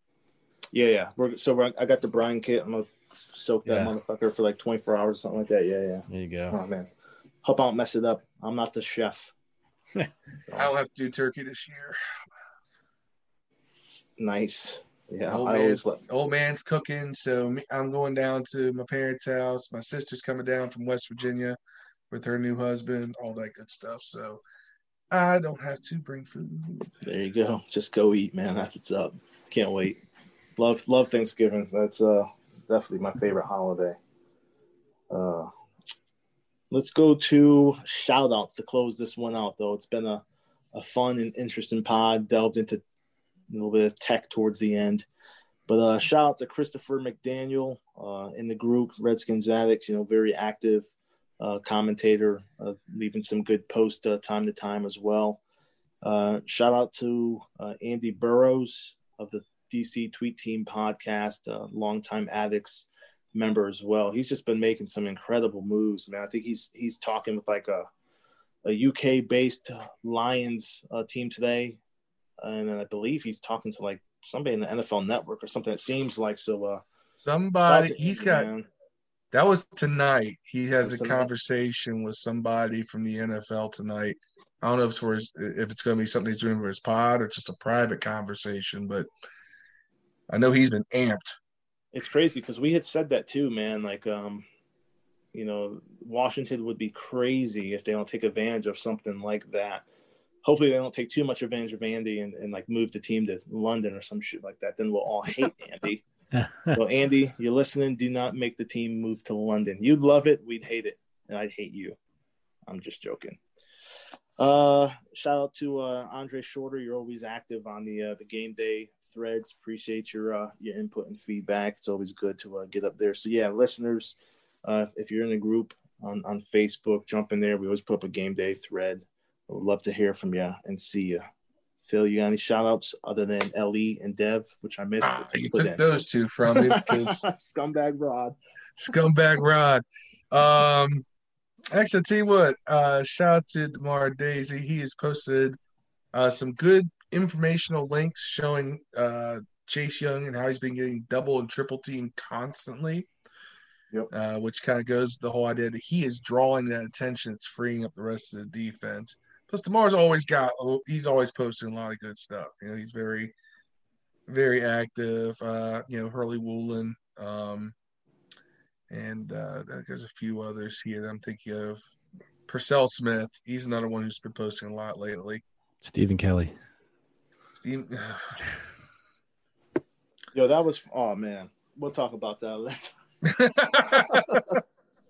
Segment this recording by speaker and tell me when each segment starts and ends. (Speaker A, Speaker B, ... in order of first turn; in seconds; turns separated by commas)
Speaker A: 0.7-6.9, Speaker B: 3.6-3.9, Speaker B: 6.1-6.6, Speaker A: 7.4-9.3, Speaker C: 10.5-12.0, Speaker A: 14.2-16.0, Speaker C: 15.3-21.6, Speaker C: 22.1-24.4, Speaker C: 25.1-27.0, Speaker A: 27.0-30.0, Speaker A: 30.6-34.0, Speaker A: 35.1-35.5, Speaker A: 36.7-42.8, Speaker A: 43.5-45.1, Speaker A: 45.7-50.9, Speaker A: 51.4-55.4, Speaker A: 56.0-67.9, Speaker A: 68.6-71.8, Speaker A: 72.4-76.8, Speaker C: 77.2-78.5, Speaker A: 77.7-78.7, Speaker C: 79.3-89.1, Speaker A: 80.8-81.3, Speaker C: 90.3-91.3, Speaker A: 91.9-94.5, Speaker A: 95.3-99.8, Speaker A: 100.4-106.0, Speaker B: 106.3-106.8, Speaker A: 106.7-112.0, Speaker A: 112.7-113.4, Speaker A: 114.4-131.2, Speaker A: 131.8-135.8, Speaker C: 135.0-137.2, Speaker A: 136.5-138.3, Speaker C: 138.8-141.0, Speaker C: 141.7-145.6, Speaker C: 146.1-153.1, Speaker C: 154.1-163.3, Speaker C: 164.3-167.7, Speaker C: 168.9-171.8, Speaker C: 172.5-175.4, Speaker B: 175.8-176.5, Speaker C: 177.6-178.4, Speaker A: 180.3-183.0, Speaker C: 183.2-184.6, Speaker A: 184.1-184.5